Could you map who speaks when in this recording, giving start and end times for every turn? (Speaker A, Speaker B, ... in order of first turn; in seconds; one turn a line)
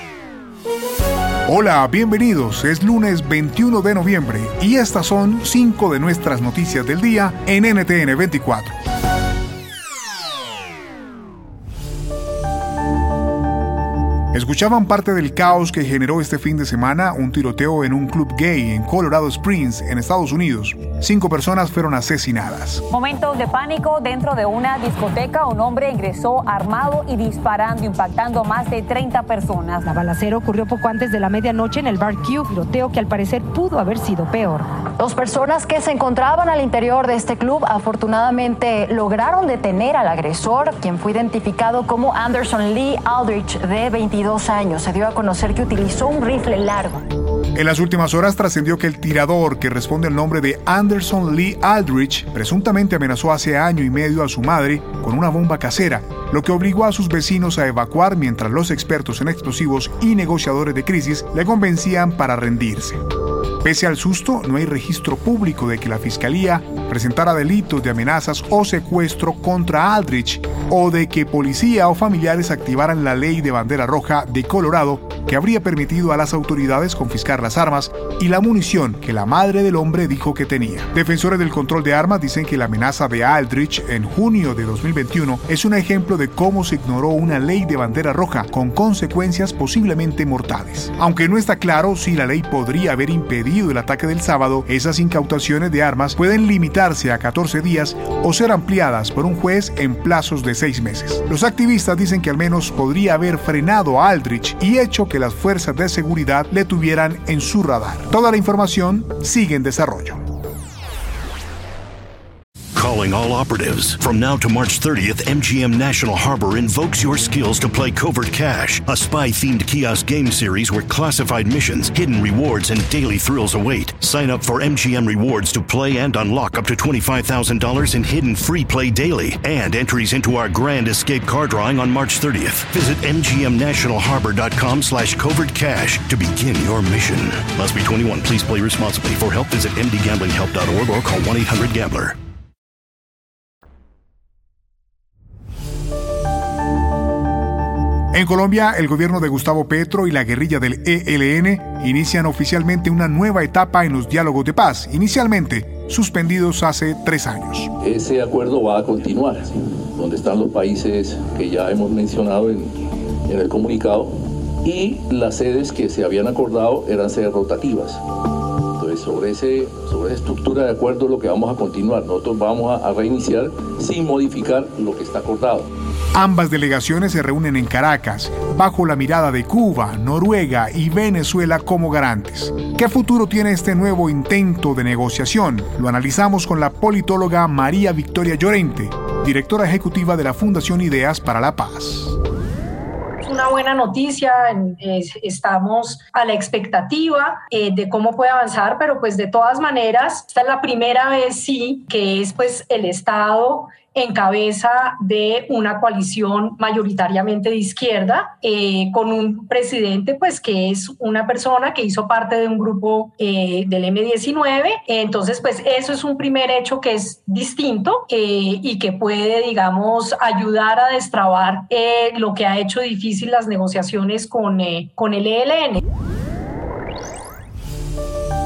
Speaker A: 1.5-8.7
Speaker A: 14.3-22.8
Speaker B: 22.9-29.9
Speaker C: 29.9-34.6
Speaker D: 35.0-47.0
Speaker A: 47.5-63.0
Speaker A: 63.6-110.2
Speaker E: 112.8-142.2
Speaker A: 148.1-157.7
Speaker F: 157.8-168.0
Speaker F: 168.8-175.7
Speaker A: 176.1-192.2
Speaker G: 193.2-225.8